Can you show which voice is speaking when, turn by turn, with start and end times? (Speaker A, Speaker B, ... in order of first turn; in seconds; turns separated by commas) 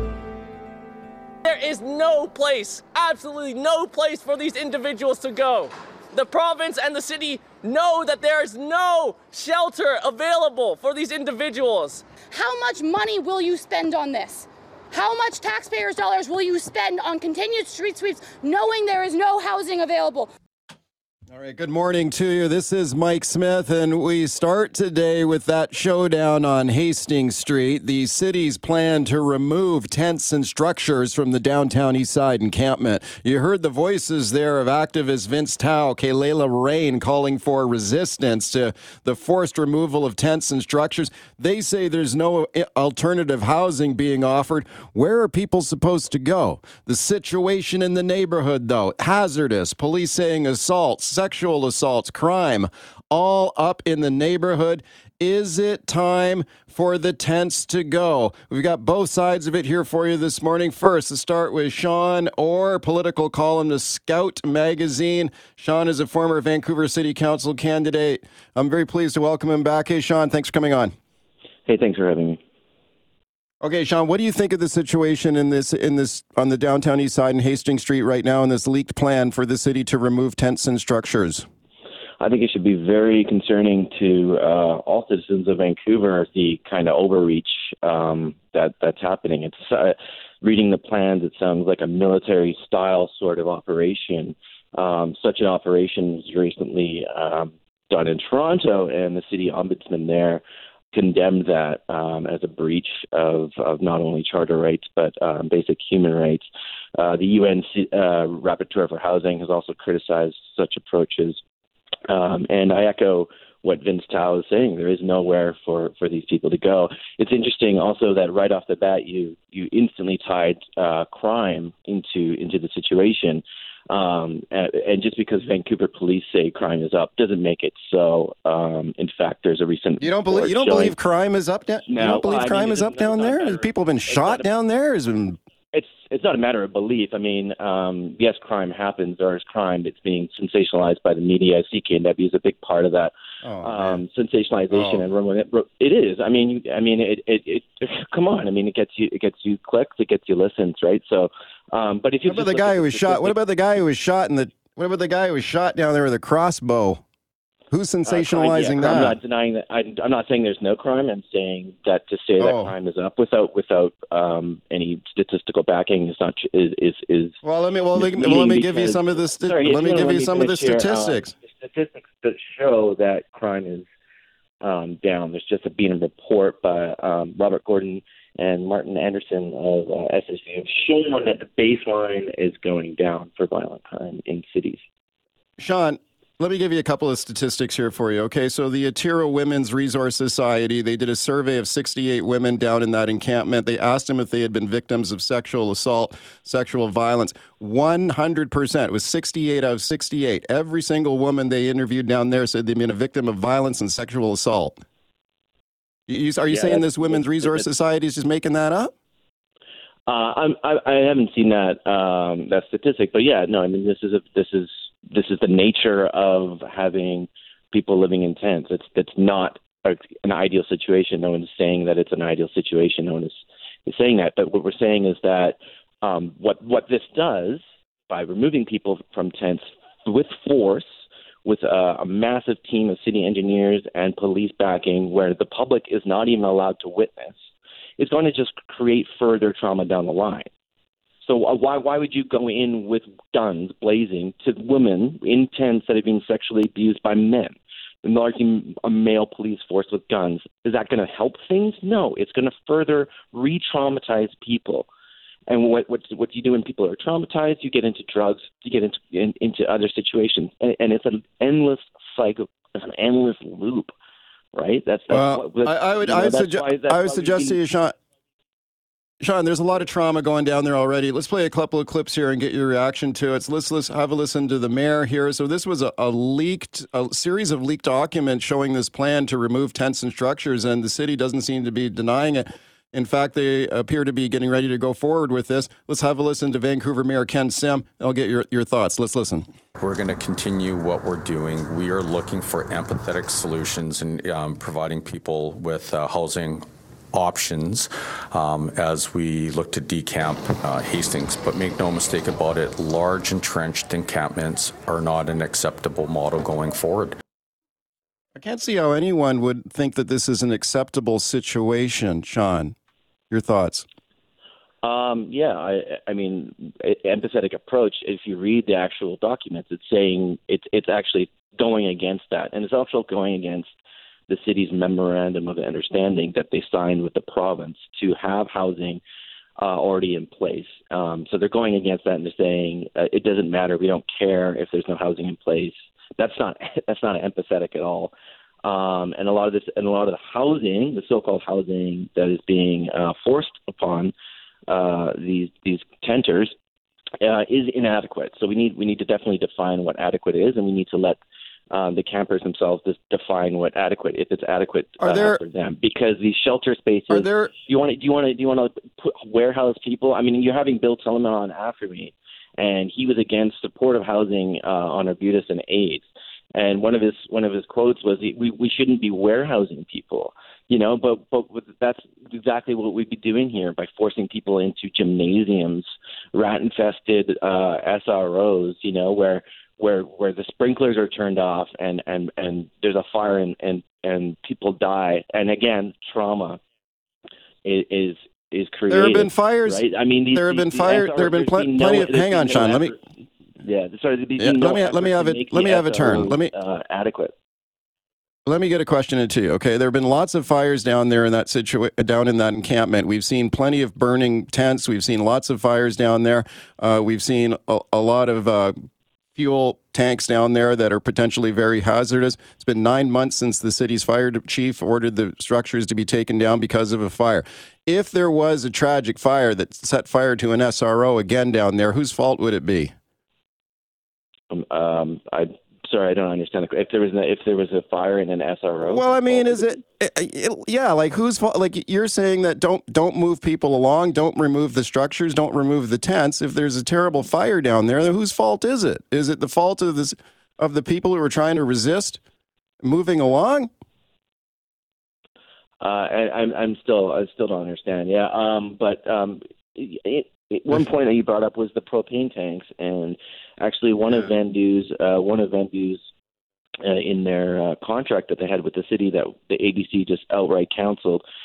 Speaker A: 1.4-12.1, Speaker B: 12.3-20.3, Speaker C: 21.3-70.9, Speaker D: 71.7-72.4, Speaker C: 73.6-81.5, Speaker D: 82.2-100.4, Speaker D: 100.9-106.5, Speaker D: 107.0-111.4, Speaker D: 112.1-130.9, Speaker C: 130.0-135.4, Speaker D: 131.9-134.5, Speaker D: 135.7-153.4, Speaker C: 143.4-144.0, Speaker C: 144.7-145.1, Speaker C: 152.2-157.0, Speaker C: 157.7-159.2, Speaker D: 158.1-167.4, Speaker C: 162.4-162.7, Speaker C: 167.4-171.3, Speaker D: 167.9-173.9, Speaker D: 174.6-184.8, Speaker C: 185.6-204.8, Speaker C: 206.1-208.9, Speaker D: 206.5-207.7, Speaker D: 210.1-230.9, Speaker D: 231.4-237.4, Speaker D: 238.0-240.5, Speaker D: 241.2-254.9, Speaker D: 255.5-263.9, Speaker D: 264.5-267.6, Speaker C: 265.1-267.9, Speaker C: 269.2-289.5, Speaker E: 289.8-307.2, Speaker C: 308.4-312.8, Speaker C: 313.3-313.9, Speaker D: 314.8-323.7, Speaker D: 324.3-329.0, Speaker D: 329.6-338.1, Speaker D: 338.6-344.1, Speaker D: 344.7-346.5, Speaker D: 347.2-351.2, Speaker D: 351.7-386.6, Speaker C: 355.0-355.4, Speaker C: 357.1-357.5, Speaker D: 387.6-393.0, Speaker C: 388.9-389.8, Speaker C: 390.3-392.9, Speaker D: 393.6-397.3, Speaker C: 394.4-396.5, Speaker C: 398.4-408.8, Speaker C: 409.4-422.9, Speaker D: 424.5-429.7, Speaker C: 428.8-442.2, Speaker C: 442.8-443.7, Speaker D: 445.8-456.0, Speaker D: 456.8-461.2